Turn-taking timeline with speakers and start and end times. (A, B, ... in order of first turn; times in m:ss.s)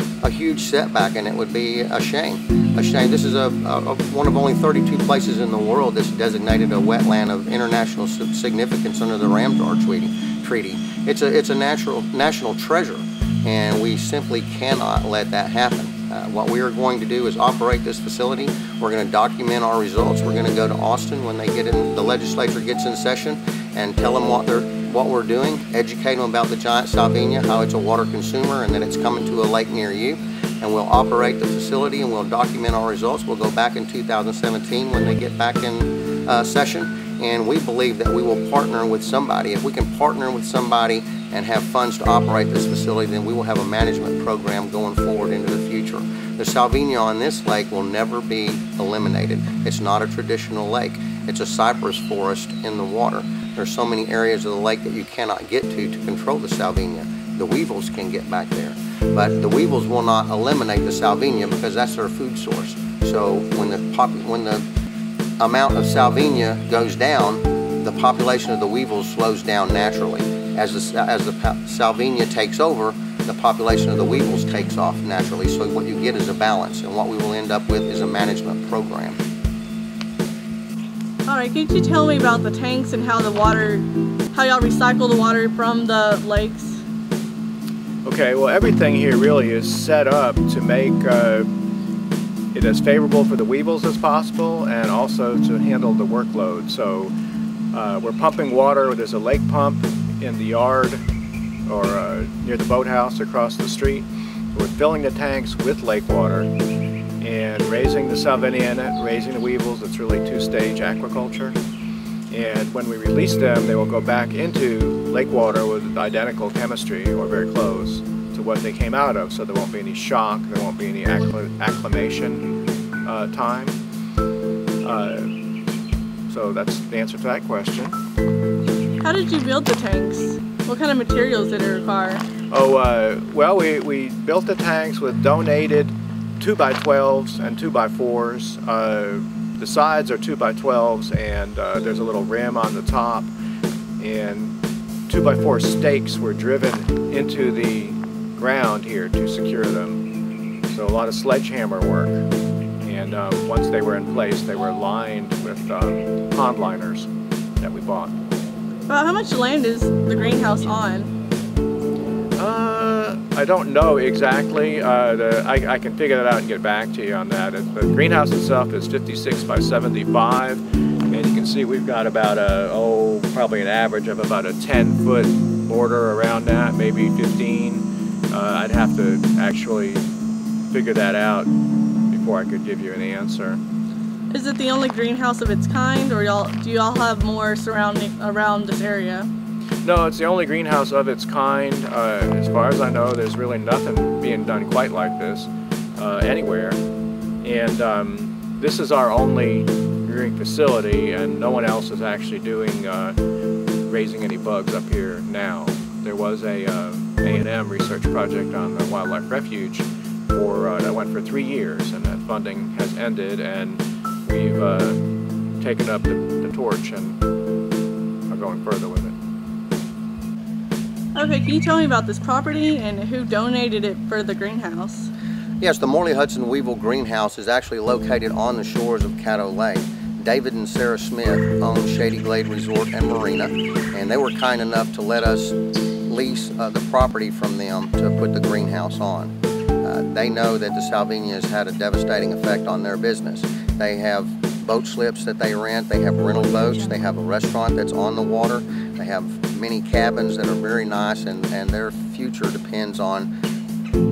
0:00.2-1:04.6 A
1:05.4-1:19.2 A
1:21.2-1:26.8 B
1:28.0-1:31.5 C
1:32.5-1:37.1 C
1:37.7-1:41.0 C
1:41.7-1:46.5 C
1:47.2-1:51.6 C
1:52.3-2:02.5 C
2:03.0-2:03.8 C
2:04.8-2:05.3 C
2:06.3-2:07.9 C
2:09.0-2:12.2 B
2:12.5-2:23.3 C
2:24.0-2:24.5 C
2:25.1-2:30.0 C
2:30.7-2:32.2 C
2:32.8-2:37.1 C
2:37.6-2:38.1 C
2:38.9-2:41.1 B
2:42.4-3:00.1 C
3:00.7-3:01.5 C
3:02.1-3:03.6 C
3:04.3-3:09.3 B
3:09.8-3:16.8 C
3:17.4-3:23.2 C
3:23.9-3:35.0 C
3:35.6-3:37.2 C
3:38.3-3:39.2 C
3:41.2-3:45.1 B
3:45.6-3:55.6 A
3:56.1-4:13.3 A